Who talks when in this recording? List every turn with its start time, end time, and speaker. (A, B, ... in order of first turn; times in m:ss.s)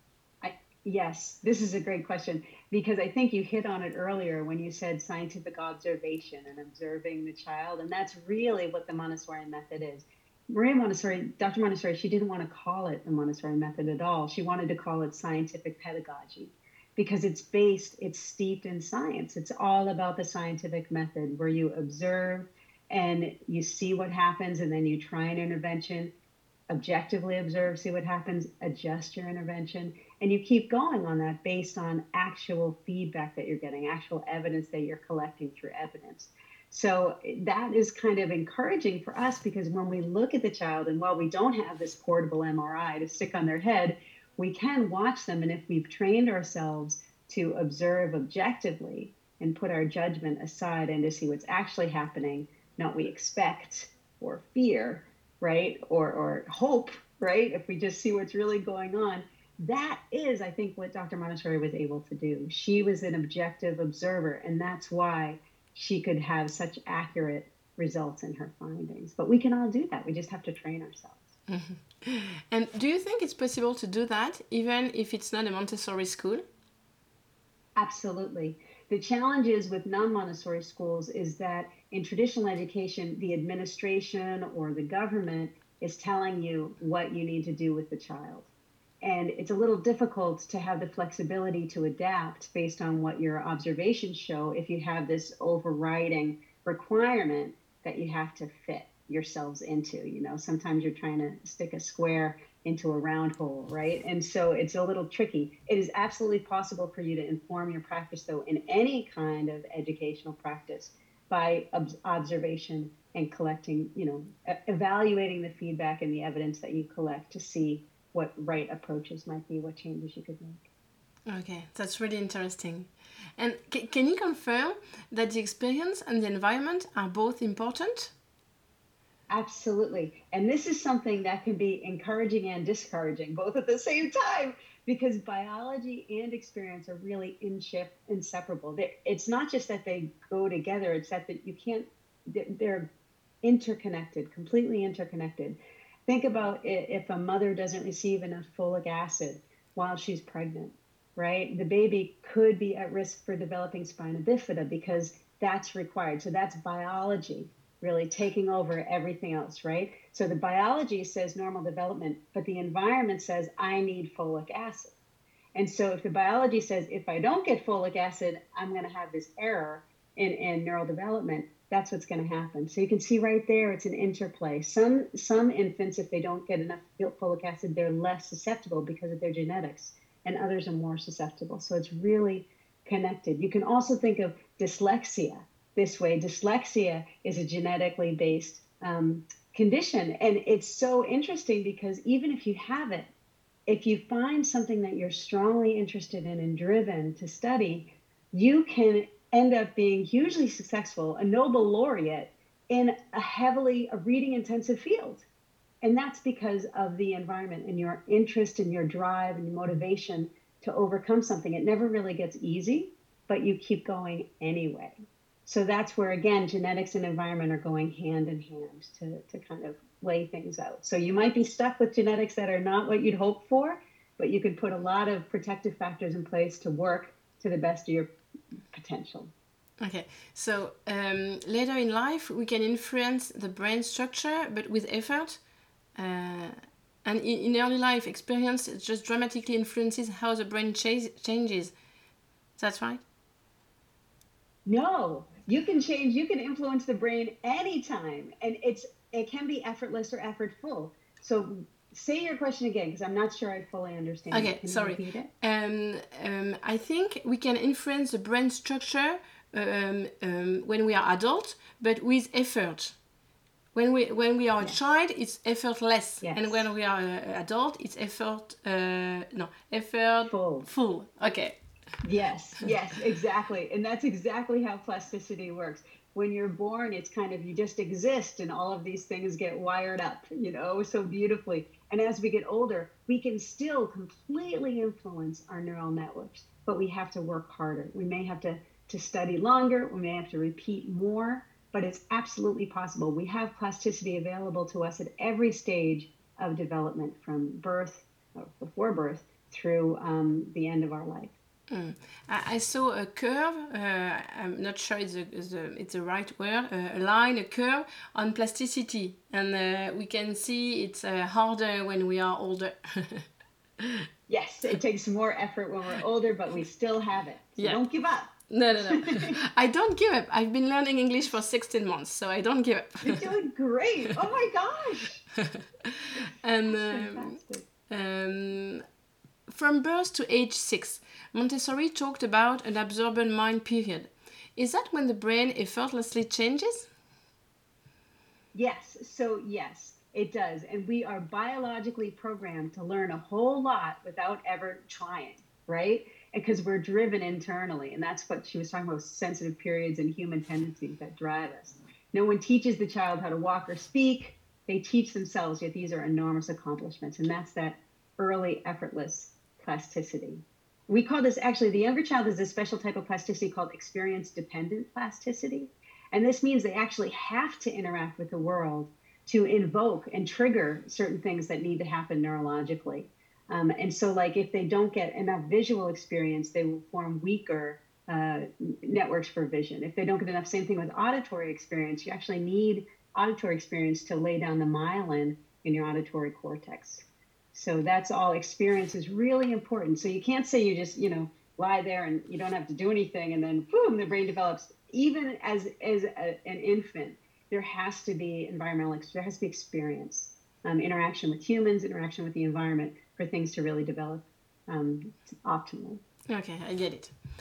0:00.4-0:26.1 A
0:26.7-1:11.3 A
1:11.5-1:16.4 B
1:17.8-1:28.5 A
1:29.0-2:00.7 A
2:01.3-2:08.1 B
2:09.3-2:22.9 A
2:23.4-2:44.9 A
2:45.6-3:13.1 A
3:13.7-3:25.3 A
3:25.8-3:48.1 A
3:48.7-3:49.3 A
3:49.8-3:55.4 B
3:56.0-4:01.7 B
4:02.6-4:03.0 B
4:04.7-4:15.3 A
4:14.3-4:23.0 B
4:23.7-4:31.6 B
4:26.2-4:26.6 A
4:30.3-4:30.7 A
4:32.0-5:01.3 A
5:01.7-5:13.3 B
5:13.8-5:14.0 B
5:14.3-5:19.4 A
5:18.5-5:23.2 B
5:23.0-5:25.2 A
5:25.4-5:27.4 B
5:26.7-5:27.7 A
5:27.9-5:28.8 B
5:29.5-5:36.9 B
5:38.5-6:46.0 A
6:46.3-6:47.2 B